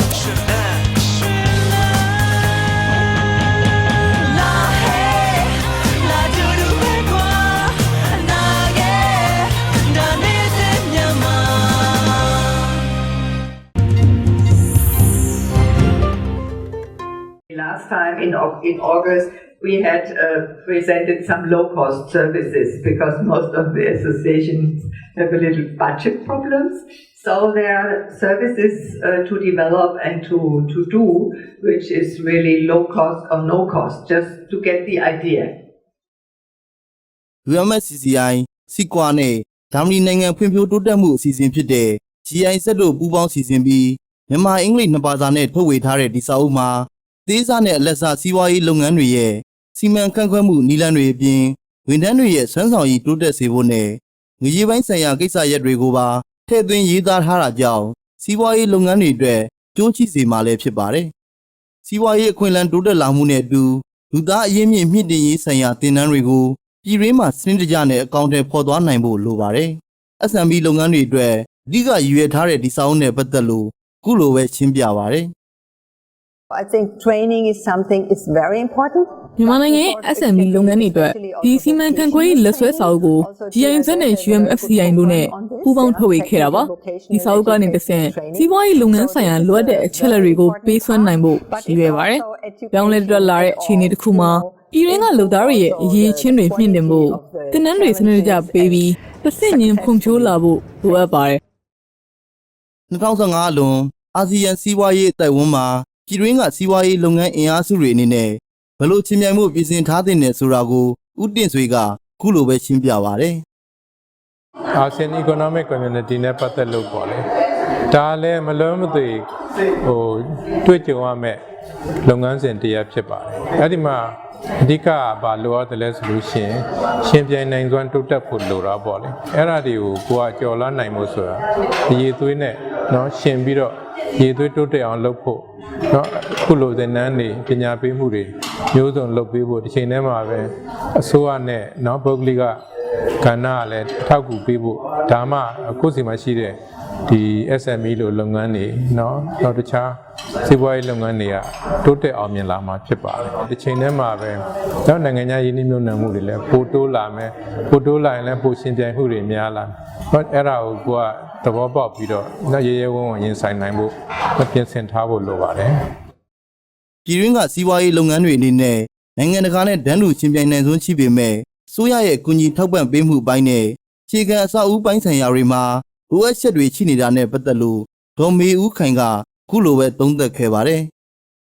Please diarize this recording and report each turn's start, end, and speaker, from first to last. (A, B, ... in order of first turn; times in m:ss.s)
0:00.3-0:00.8 A
0:04.2-0:11.8 A
0:17.5-0:35.5 B
0:37.5-1:01.1 C
1:01.8-1:15.3 C
1:16.5-1:41.3 D
1:19.4-1:41.4 A
1:42.9-1:53.4 C
1:54.8-1:57.2 E
1:57.9-1:59.2 E
1:59.8-2:01.4 E
2:02.0-2:04.1 E
2:04.6-2:22.6 E
2:23.2-2:45.7 E
2:47.1-3:00.9 C